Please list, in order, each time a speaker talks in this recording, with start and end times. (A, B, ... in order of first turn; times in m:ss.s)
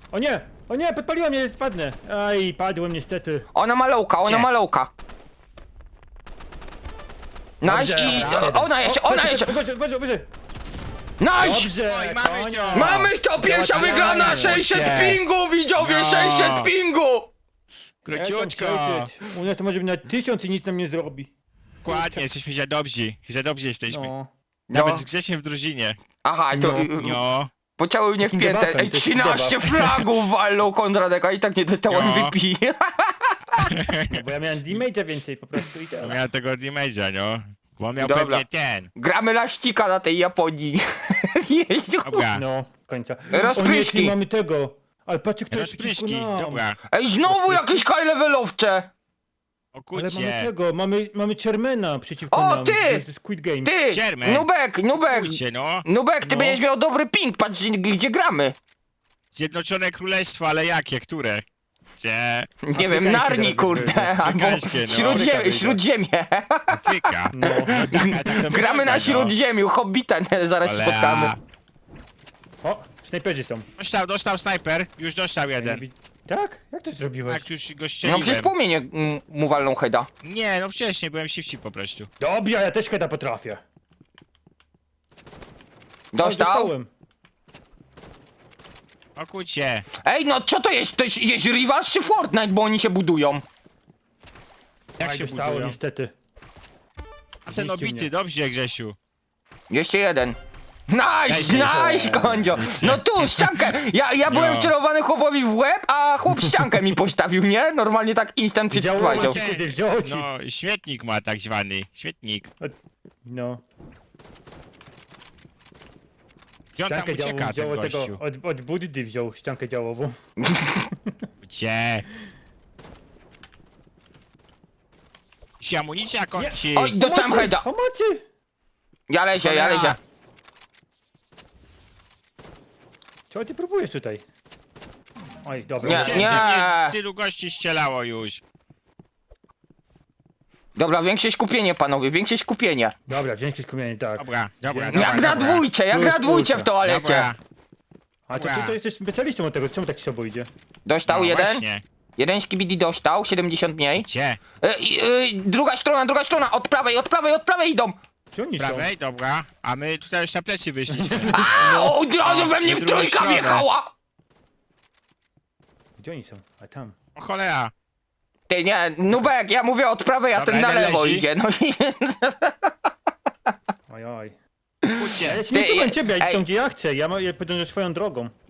0:00.1-0:03.5 A
0:03.5-0:04.9 B
0:04.2-0:04.5 C
0:07.6-0:09.5 B
0:07.6-0:10.3 A
0:08.0-0:08.5 C
0:11.2-0:11.7 B
0:11.4-0:14.7 A
0:11.8-0:13.1 C
0:12.7-0:17.3 B
0:14.0-0:15.2 C
0:15.8-0:16.7 C
0:18.1-0:19.1 C
0:18.1-0:21.3 A
0:21.8-0:24.1 C
0:21.8-0:22.2 A
0:23.9-0:24.3 A
0:24.7-0:26.0 C
0:24.7-0:25.0 B
0:26.2-0:27.2 B
0:26.5-0:26.9 A
0:27.0-0:27.5 C
0:27.8-0:33.7 B
0:28.2-0:30.0 A
0:31.9-0:32.3 C
0:33.6-0:34.2 C
0:34.1-0:36.2 A
0:36.0-0:38.9 C
0:38.0-0:38.4 B
0:39.0-0:42.2 B
0:42.0-0:42.4 C
0:42.3-0:46.6 A
0:43.3-0:44.1 B
0:45.5-0:46.8 C
0:46.9-0:48.9 B
0:47.2-0:47.8 A
0:49.7-0:50.5 C
0:49.9-0:53.7 A
0:52.3-0:53.0 B
0:53.6-0:58.6 B
0:53.9-0:54.5 C
0:55.0-0:56.5 C
0:59.3-1:01.4 C
1:02.0-1:02.5 C
1:02.6-1:11.3 B
1:02.7-1:04.2 A
1:04.2-1:05.3 C
1:04.9-1:05.8 A
1:06.7-1:09.3 C
1:07.3-1:08.1 A
1:10.6-1:11.4 C
1:12.6-1:13.7 A
1:13.8-1:15.8 C
1:15.6-1:17.4 A
1:17.3-1:18.5 C
1:18.0-1:20.1 B
1:20.2-1:22.1 C
1:22.2-1:23.6 A
1:26.1-1:26.7 B
1:26.2-1:26.9 A
1:29.2-1:29.8 C
1:30.0-1:33.4 B
1:35.0-1:35.7 C
1:35.0-1:36.1 A
1:37.4-1:39.0 C
1:37.5-1:38.1 A
1:39.7-1:40.4 B
1:40.9-1:49.4 B
1:41.3-1:43.7 C
1:41.5-1:42.4 A
1:44.3-1:44.7 C
1:48.7-1:50.2 A
1:49.0-1:52.5 C
1:52.6-1:53.6 A
1:56.8-1:58.2 C
1:56.8-2:00.2 A
2:00.4-2:00.9 B
2:01.4-2:02.0 C
2:05.6-2:07.0 C
2:06.4-2:08.2 A
2:06.8-2:07.6 B
2:09.1-2:10.0 B
2:09.4-2:10.0 C
2:13.3-2:14.2 A
2:15.4-2:16.4 A
2:15.8-2:16.9 B
2:15.8-2:18.4 C
2:20.8-2:22.9 B
2:23.1-2:26.7 A
2:24.2-2:25.7 C
2:24.9-2:27.3 B
2:26.8-2:27.4 C
2:28.3-2:30.5 A
2:28.3-2:28.7 C
2:30.8-2:31.6 B
2:31.1-2:31.8 C
2:32.2-2:34.0 B
2:34.0-2:34.4 C
2:34.6-2:38.0 B
2:38.3-2:38.9 A
2:38.6-2:43.6 C
2:40.9-2:42.0 A
2:41.3-2:43.9 B
2:46.0-2:47.0 A
2:47.2-2:47.7 C
2:48.5-2:52.9 B
2:50.3-2:51.2 C
2:53.9-2:54.4 A
2:54.8-2:56.4 B
2:55.0-2:55.4 C
2:55.2-2:58.3 A